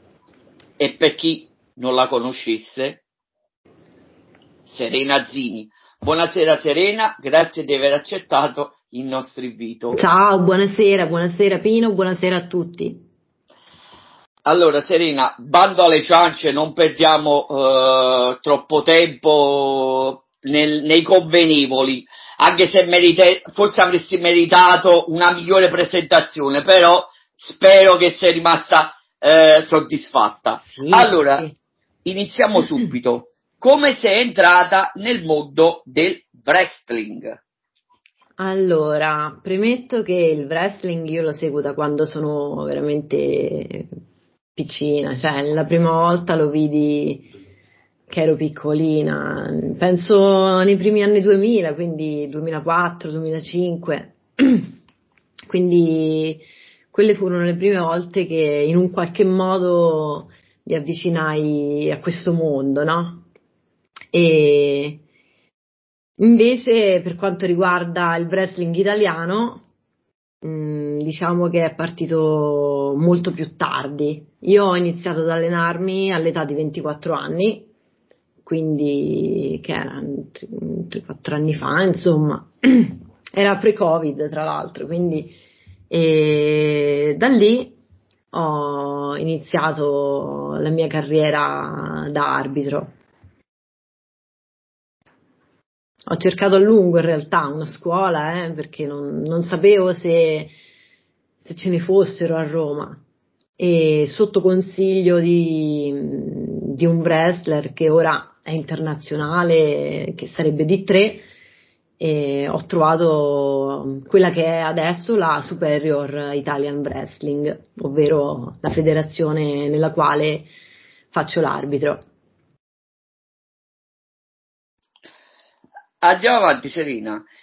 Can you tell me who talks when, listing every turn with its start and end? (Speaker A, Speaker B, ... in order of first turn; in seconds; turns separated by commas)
Speaker A: 0.8-3.0, Speaker A: 4.6-10.0, Speaker B: 9.9-13.0, Speaker A: 14.4-31.5, Speaker B: 30.8-31.6, Speaker A: 32.0-37.4, Speaker B: 38.4-43.9, Speaker B: 44.5-47.3, Speaker B: 48.1-54.7, Speaker B: 55.5-63.2, Speaker B: 64.1-65.0, Speaker B: 66.2-69.6, Speaker B: 70.4-77.7, Speaker B: 78.4-85.3, Speaker B: 85.9-87.8, Speaker B: 88.3-92.9, Speaker B: 96.1-100.5, Speaker B: 101.4-103.0, Speaker B: 103.6-111.2, Speaker B: 112.0-120.5, Speaker B: 121.1-122.0, Speaker A: 126.0-127.2